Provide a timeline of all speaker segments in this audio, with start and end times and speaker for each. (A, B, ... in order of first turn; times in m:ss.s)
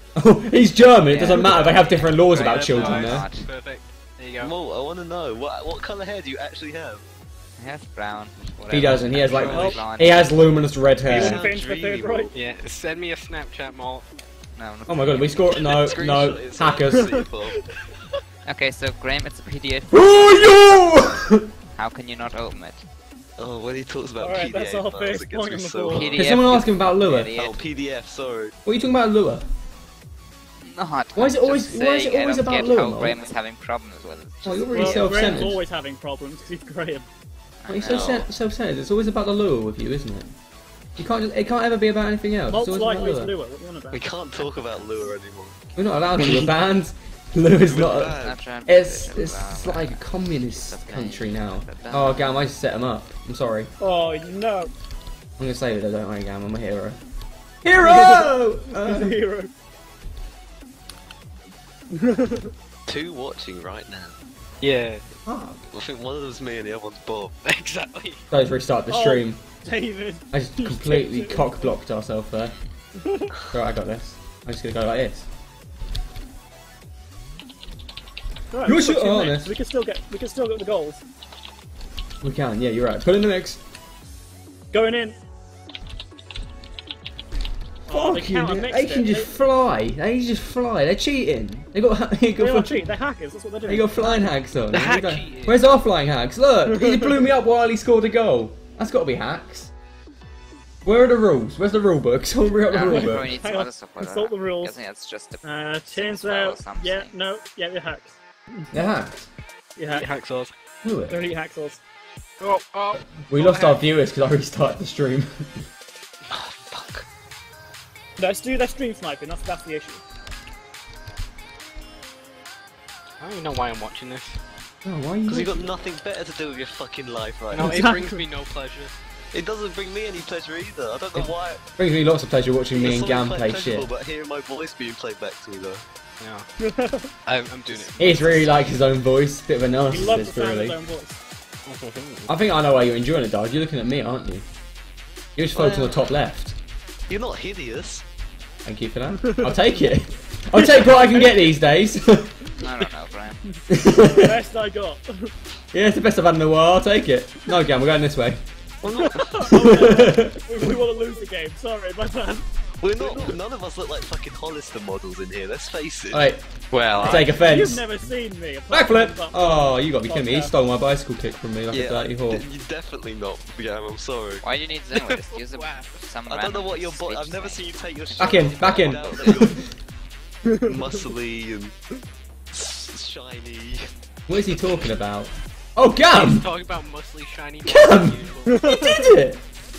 0:00.2-0:03.2 A
0:01.0-0:03.5 B
0:02.3-0:04.5 C
0:04.4-0:07.0 D
0:07.6-0:10.4 B
0:08.7-0:11.4 A
0:09.3-0:09.8 D
0:09.5-0:09.8 E
0:11.0-0:12.3 D
0:11.0-0:12.3 E
0:12.3-0:14.0 C
0:14.6-0:15.5 B
0:14.9-0:17.2 A
0:15.7-0:17.6 D
0:18.4-0:22.8 B
0:19.9-0:21.5 A
0:23.4-0:26.2 D
0:24.2-0:26.1 E
0:25.9-0:27.6 B
0:26.1-0:27.3 A
0:27.3-0:28.5 D
0:28.6-0:29.4 A
0:30.6-0:35.5 B
0:31.2-0:33.2 A
0:34.4-0:35.6 A
0:34.7-0:37.0 E
0:37.6-0:38.2 B
0:37.7-0:40.3 A
0:37.8-0:38.3 D
0:41.0-0:43.3 A
0:42.5-0:44.1 E
0:43.9-0:45.6 D
0:44.4-0:45.1 B
0:45.8-0:53.7 A
0:47.6-0:48.4 D
0:48.0-0:52.5 B
0:53.8-0:54.7 E
0:55.4-0:57.0 A
0:57.6-0:59.2 A
0:57.8-0:59.5 E
1:01.9-1:02.5 E
1:02.9-1:04.1 D
1:04.6-1:05.1 C
1:05.2-1:05.6 A
1:05.7-1:07.4 D
1:07.4-1:08.2 C
1:08.3-1:09.4 A
1:08.9-1:11.7 E
1:10.3-1:12.5 A
1:13.0-1:13.3 E
1:13.5-1:15.3 A
1:18.5-1:21.0 E
1:18.6-1:19.5 A
1:22.2-1:23.6 A
1:24.7-1:25.2 E
1:27.9-1:29.3 E
1:27.9-1:32.9 A
1:32.4-1:34.3 E
1:33.7-1:39.7 A
1:34.7-1:35.8 C
1:36.7-1:37.3 E
1:40.8-1:43.3 A
1:42.7-1:47.2 B
1:42.9-1:44.8 E
1:45.4-1:48.1 E
1:48.7-1:49.3 A
1:49.8-1:50.1 E
1:49.8-1:50.5 C
1:50.8-1:51.2 A
1:51.1-1:51.8 E
1:52.4-1:53.8 C
1:53.3-1:55.5 A
1:56.3-1:57.0 D
1:58.2-2:00.0 E
2:03.2-2:04.4 C
2:04.8-2:05.7 A
2:05.3-2:07.8 D
2:07.5-2:08.9 C
2:07.6-2:08.2 E
2:09.3-2:11.6 D
2:11.8-2:13.9 A
2:12.7-2:15.8 D
2:16.2-2:16.5 C
2:16.6-2:17.1 E
2:17.2-2:18.7 C
2:17.7-2:17.9 D
2:18.0-2:20.8 A
2:19.9-2:21.2 E
2:21.6-2:22.3 C
2:22.3-2:24.4 A
2:25.4-2:26.6 A
2:25.5-2:26.1 D
2:27.1-2:28.0 D
2:28.6-2:32.4 A
2:30.6-2:31.4 E
2:32.6-2:33.6 B
2:33.7-2:34.4 A
2:34.0-2:35.3 E
2:35.7-2:38.4 A
2:38.8-2:40.1 D
2:38.8-2:42.5 E
2:39.4-2:40.7 A
2:42.8-2:46.3 D
2:46.1-2:48.1 A
2:46.7-2:47.3 C
2:47.0-2:50.5 E
2:48.7-2:52.4 A
2:51.7-2:54.4 D
2:54.4-2:57.7 B
2:55.3-2:55.9 C
2:56.3-2:59.6 D
2:58.2-2:59.6 A
2:58.6-2:59.2 B
3:00.5-3:00.8 E
3:00.6-3:01.7 D
3:02.5-3:03.9 D
3:04.3-3:06.5 A
3:06.1-3:08.7 C
3:07.6-3:09.4 A
3:08.5-3:09.1 E